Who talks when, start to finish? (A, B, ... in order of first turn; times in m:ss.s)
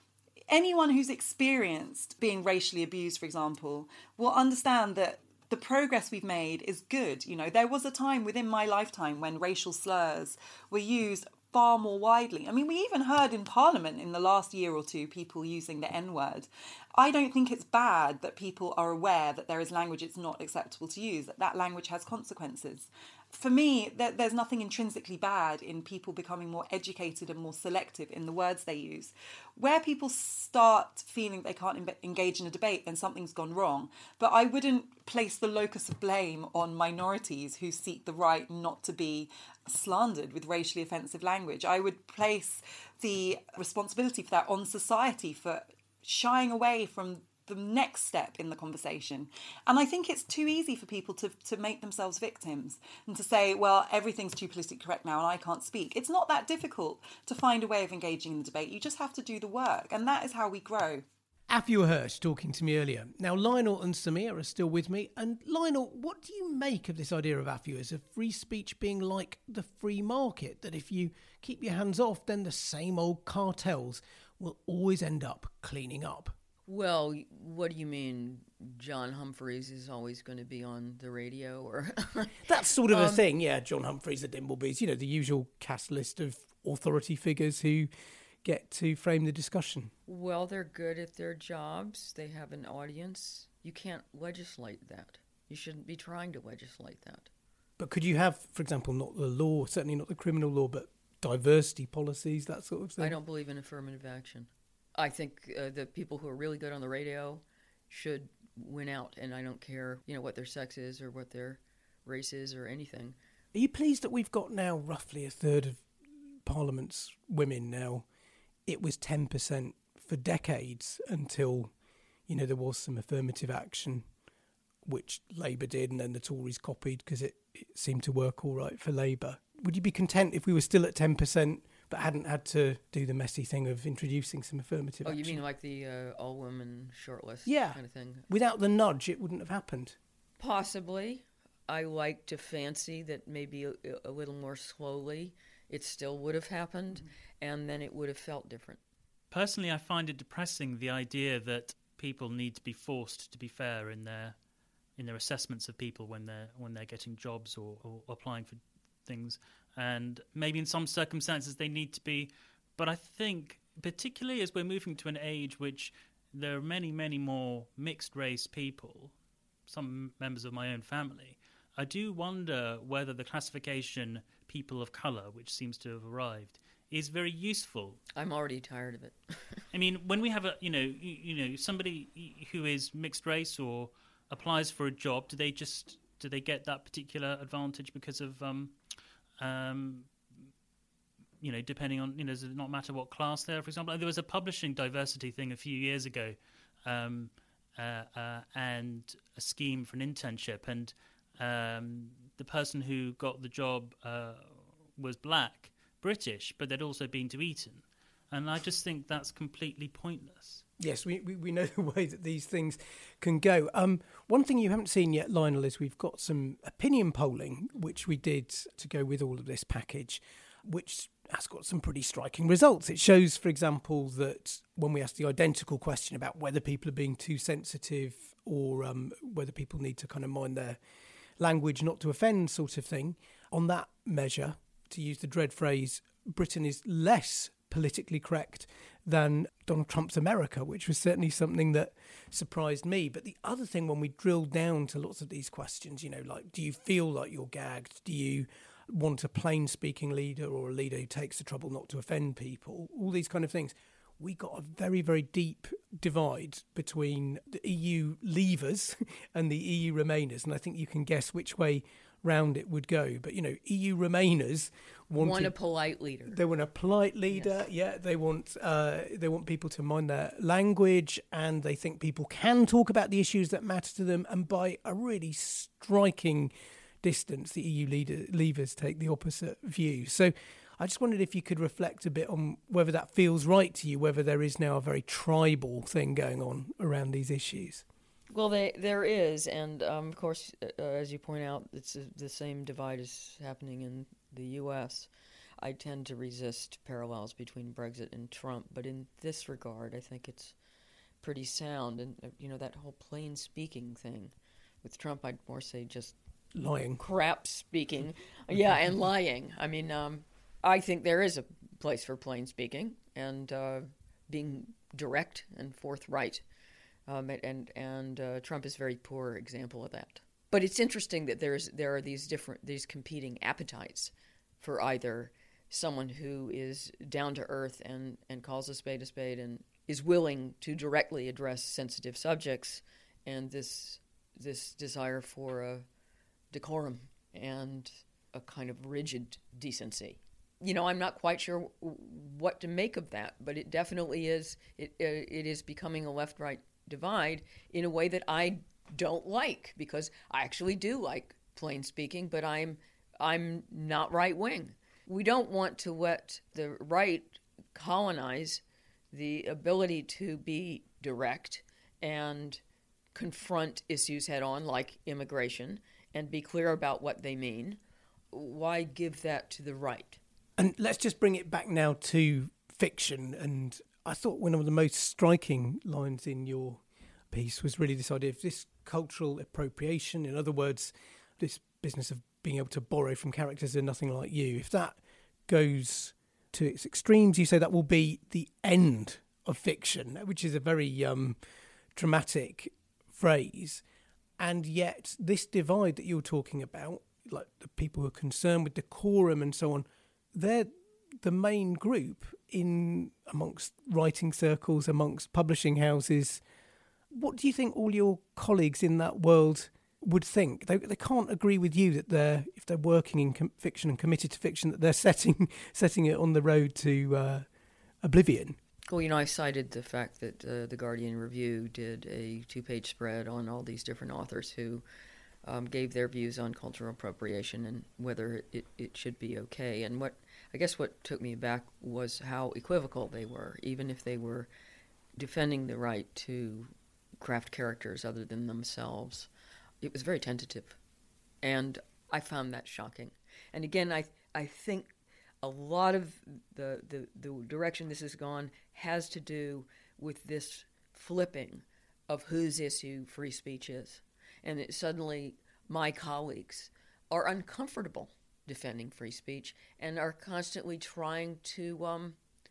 0:00.5-1:01.0 A
1:01.5-1:16.4 B
1:16.7-1:23.2 C
1:22.4-1:27.9 B
1:28.4-1:29.9 B
1:30.1-1:37.3 C
1:37.8-1:43.2 B
1:43.0-1:53.2 C
1:53.5-1:55.8 B
1:56.4-1:58.0 B
1:58.6-2:01.7 B
2:02.3-2:04.0 B
2:04.8-2:15.4 B
2:15.0-2:18.2 C
2:17.4-2:20.0 B
2:20.4-2:28.8 C
2:29.3-2:34.4 D
2:35.0-2:49.1 D
2:49.7-2:58.0 D
2:58.2-2:59.6 C
2:59.7-3:08.8 D
3:09.4-3:10.1 D
3:11.4-3:30.6 D
3:30.8-3:50.8 B
3:51.4-4:25.5 B
4:25.2-4:26.4 C
4:26.3-4:36.5 B
4:27.3-4:27.6 C
4:37.0-4:47.8 B
4:48.3-4:55.1 C
4:55.6-5:00.5 C
5:01.2-5:06.2 C
5:06.5-5:07.0 B
5:07.0-5:16.4 C
5:17.1-5:35.8 C
5:36.5-6:02.6 C
6:03.1-6:07.8 C
6:08.3-6:10.2 C
6:10.6-6:31.4 B
6:32.0-6:33.8 B
6:34.4-6:46.4 B
6:47.1-6:57.4 B
6:58.0-6:58.6 B
6:58.9-7:04.8 C
7:05.4-7:14.5 C
7:15.2-7:19.3 C
7:19.8-7:20.8 C
7:21.4-7:42.2 C